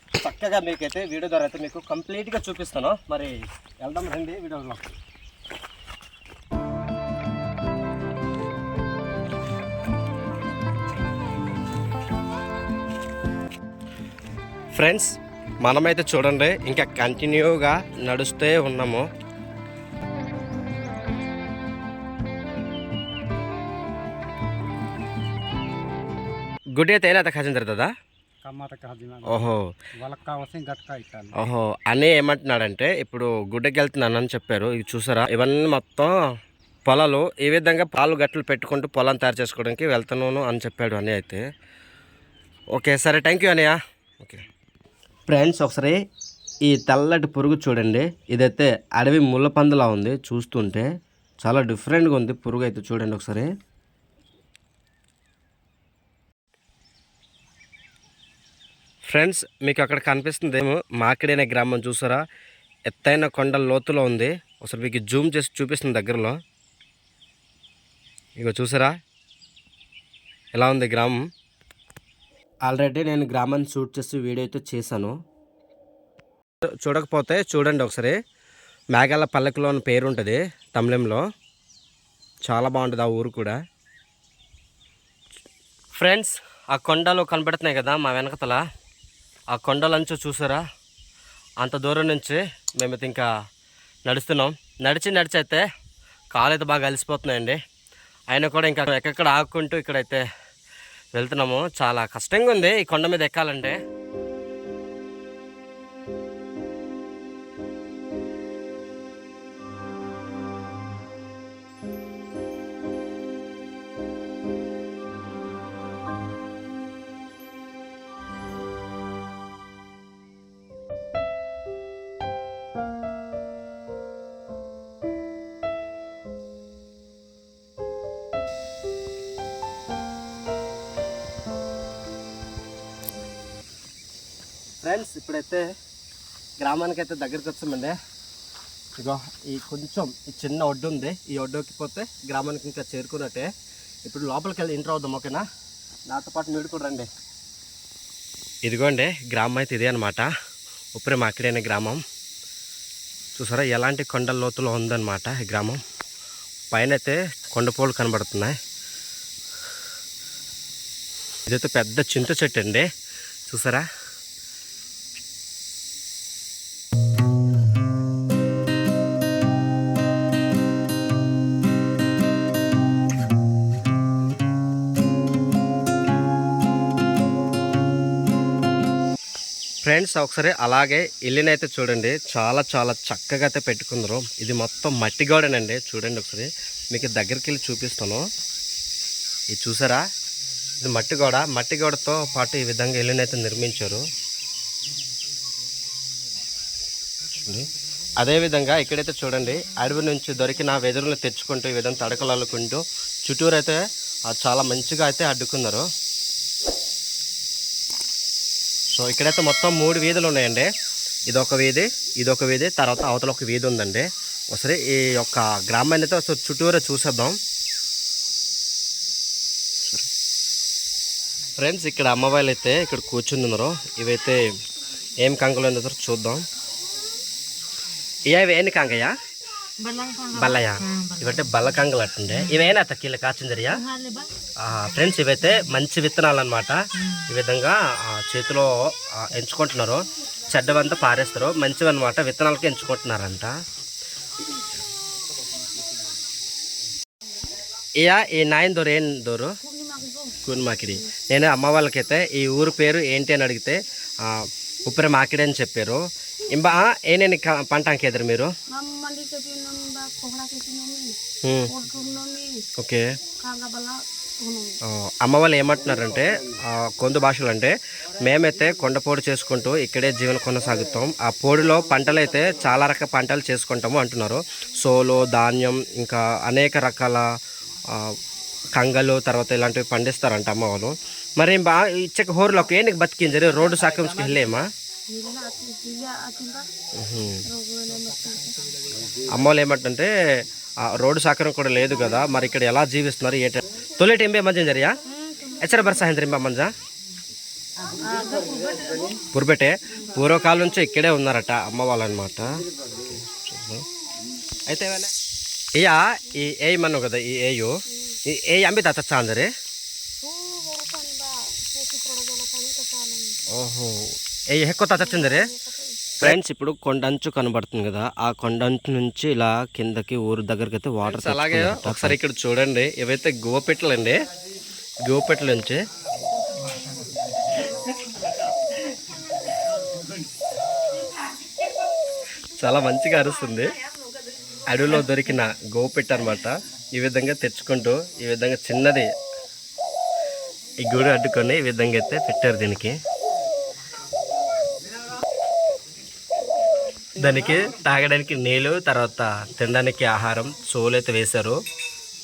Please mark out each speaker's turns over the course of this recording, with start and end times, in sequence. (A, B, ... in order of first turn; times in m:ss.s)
0:00.2-0:05.0 A
0:14.7-0:19.1 A
0:26.8-0:27.9 A
0:28.5-0:29.5 B
0:29.3-0:29.7 A
0:30.0-0:31.3 B
0:31.3-0:36.1 A
0:36.9-0:41.4 A
0:42.7-0:44.4 A
0:45.3-0:46.0 A
0:46.6-0:50.9 A
0:51.4-0:53.5 A
0:59.1-1:02.2 A
1:02.9-1:06.4 A
1:08.4-1:09.0 A
1:10.5-1:11.2 A
1:12.6-1:15.2 A
1:16.8-1:18.2 A
1:18.9-1:21.2 A
1:22.5-1:23.6 A
1:26.0-1:28.6 A
1:29.5-1:30.6 A
1:31.6-1:33.3 A
1:34.1-1:35.6 A
1:36.3-1:37.6 A
1:38.3-1:40.2 A
1:41.2-1:43.8 A
2:14.8-2:15.7 A
2:16.6-2:18.0 A
2:19.0-2:23.5 A
2:24.1-2:25.4 A
2:26.1-2:27.1 A
2:28.6-2:30.3 A
2:31.0-2:32.0 A
2:33.3-2:35.8 A
2:36.7-2:38.6 A
2:41.5-2:42.9 A
2:43.5-2:43.9 A
2:59.8-3:08.2 A
3:09.5-3:10.1 A
3:10.8-3:14.0 A
3:17.4-3:25.9 A
3:29.0-3:30.7 A
3:31.3-3:37.4 A
3:41.6-3:44.5 A
3:45.2-3:46.4 A
3:48.3-3:49.1 A
3:50.2-3:53.9 A
3:54.6-4:03.5 A
4:08.0-4:09.6 A
4:09.6-4:10.4 C
4:10.4-4:18.5 A
4:18.7-4:22.6 C
4:21.4-4:21.7 A
4:22.8-4:23.2 A
4:23.4-4:24.8 C
4:24.9-4:37.3 A
4:37.9-4:38.1 A
4:38.8-4:44.7 A
4:45.1-4:46.7 C
4:47.0-4:47.5 A
4:47.5-4:48.6 C
4:49.2-4:50.1 A
4:50.8-4:55.0 A
4:55.1-4:55.8 C
4:55.6-4:56.7 A
4:57.9-4:59.2 C
4:59.3-5:03.9 A
5:04.7-5:05.1 A
5:05.8-5:07.7 A
5:08.3-5:09.5 A
5:10.2-5:13.4 C
5:13.5-5:15.5 A
5:15.0-5:16.1 C
5:16.2-5:24.2 A
5:25.0-5:25.8 A
5:32.6-5:33.7 A
5:34.6-5:39.1 A
5:40.8-5:43.0 A
5:47.2-5:51.6 A